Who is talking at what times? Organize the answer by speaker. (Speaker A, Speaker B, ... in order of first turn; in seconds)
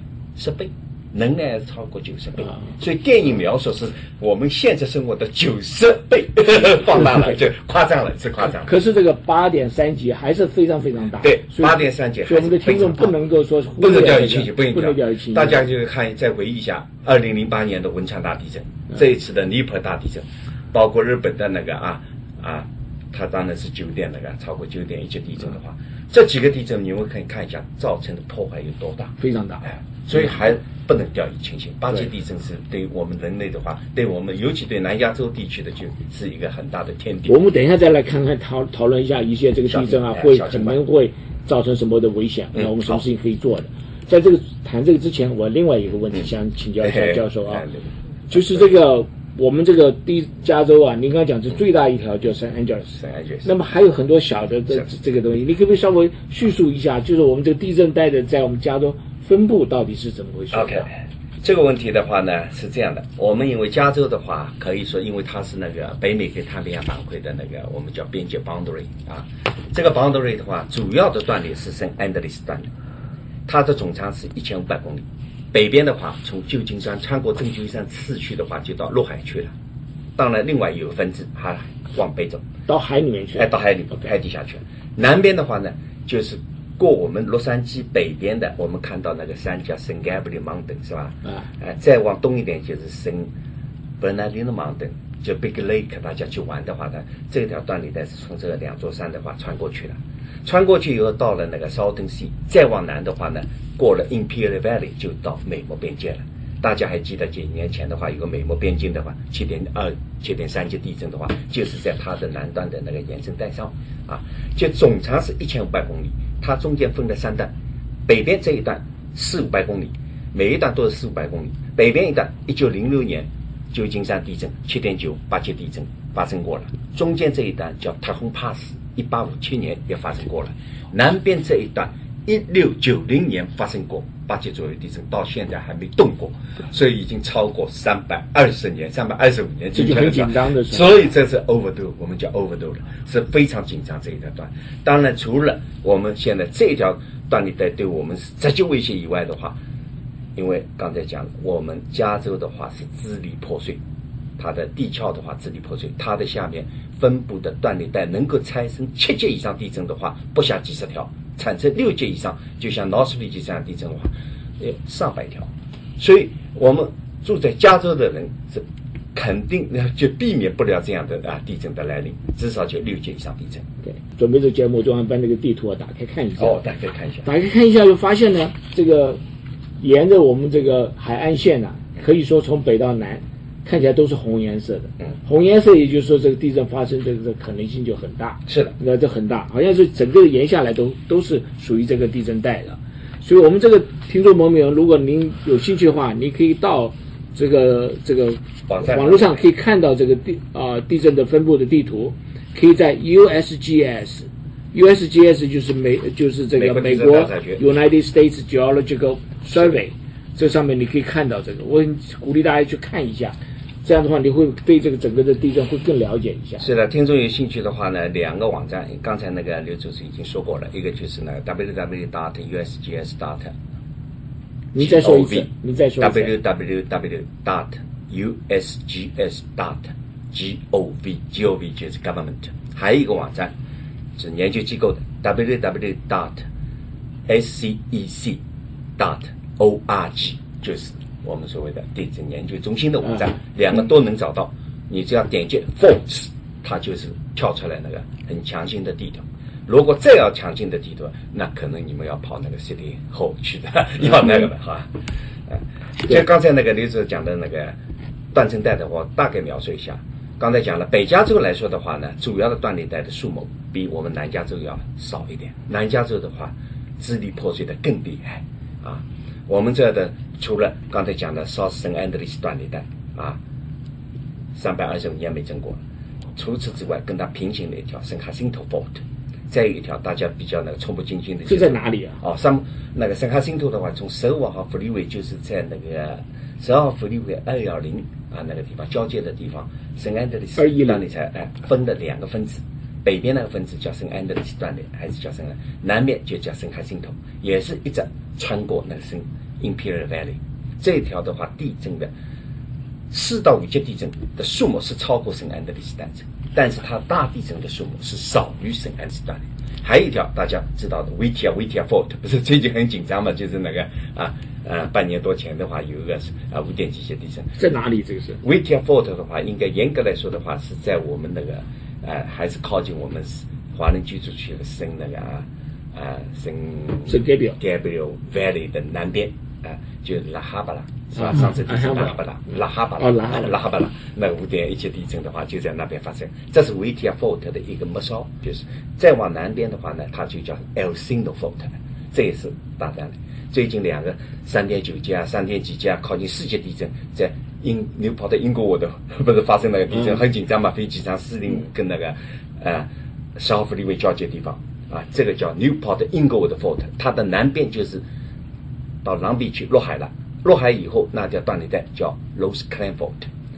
Speaker A: 0.3-8.7, 11.2-13.2, 13.8-37.4, 39.7-40.8, 42.5-43.0, 46.8-48.6, 53.0-53.5, 60.5-60.9, 61.4-72.7, 73.5-79.5, 80.2-82.4, 83.3-93.3, 94.0-117.5, 118.1-149.6, 150.3-153.8, 154.4-173.6, 176.4-177.2, 188.5-188.7, 198.7-199.4, 206.5-207.6, 216.6-223.5, 224.8-225.5, 226.0-233.5, 234.2-236.4, 237.3-238.4, 239.0-254.9, 255.5-257.8, 258.3-273.4, 274.5-275.8, 276.3-302.1, 303.1-317.6, 318.4-358.0, 359.0-363.3
Speaker B: 8.6-15.7, 29.2-29.6, 37.2-47.6, 48.3-60.9, 82.7-84.1, 139.7-141.0, 173.8-176.6, 177.2-179.2, 179.8-216.7, 224.7-226.3, 281.4-282.2, 290.6-291.0, 317.6-318.4, 327.1-327.6, 331.1-332.1, 333.0-333.6